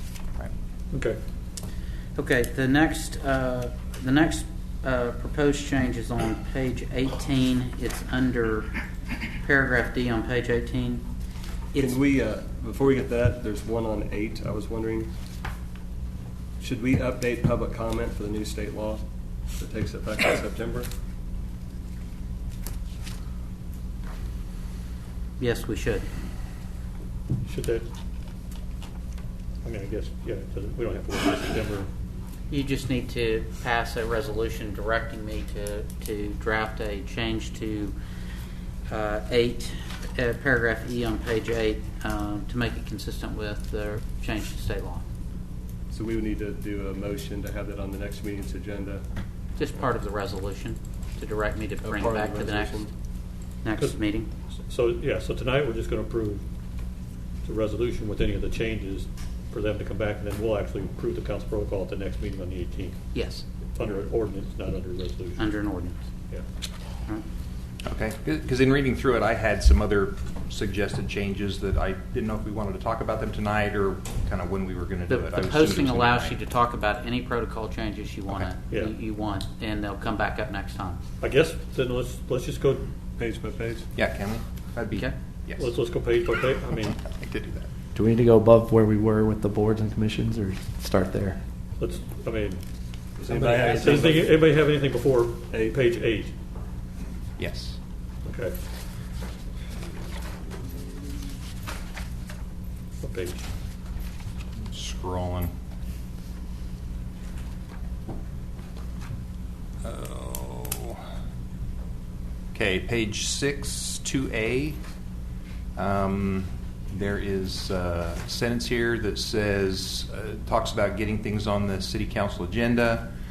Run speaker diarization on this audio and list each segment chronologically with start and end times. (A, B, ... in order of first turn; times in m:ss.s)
0:00.9-0:01.2 A
0:02.2-0:08.8 B
0:09.4-0:11.1 B
0:11.8-0:15.1 C
0:16.6-0:19.0 C
0:19.6-0:20.9 C
0:25.4-0:26.1 B
0:27.4-0:27.8 A
0:29.6-0:31.9 A
0:32.5-0:38.0 B
0:38.9-0:45.0 B
0:45.9-0:49.0 C
0:49.6-0:52.8 B
0:51.8-0:52.9 C
0:53.6-0:54.3 B
0:54.7-0:56.4 A
0:57.4-1:03.0 A
1:03.1-1:03.4 B
1:03.7-1:05.4 A
1:05.4-1:06.0 B
1:07.8-1:16.4 D
1:15.1-1:21.0 B
1:21.2-1:22.9 A
1:23.2-1:23.9 C
1:24.0-1:25.8 D
1:25.6-1:27.0 A
1:26.7-1:27.7 D
1:28.0-1:31.4 E
1:31.8-1:32.6 A
1:33.2-1:34.4 C
1:33.3-1:36.3 A
1:37.4-1:37.8 D
1:38.2-1:38.6 A
1:43.0-1:43.4 A
1:44.7-1:45.5 D
1:49.8-1:51.0 D
1:52.5-1:54.8 D
1:55.8-2:03.1 D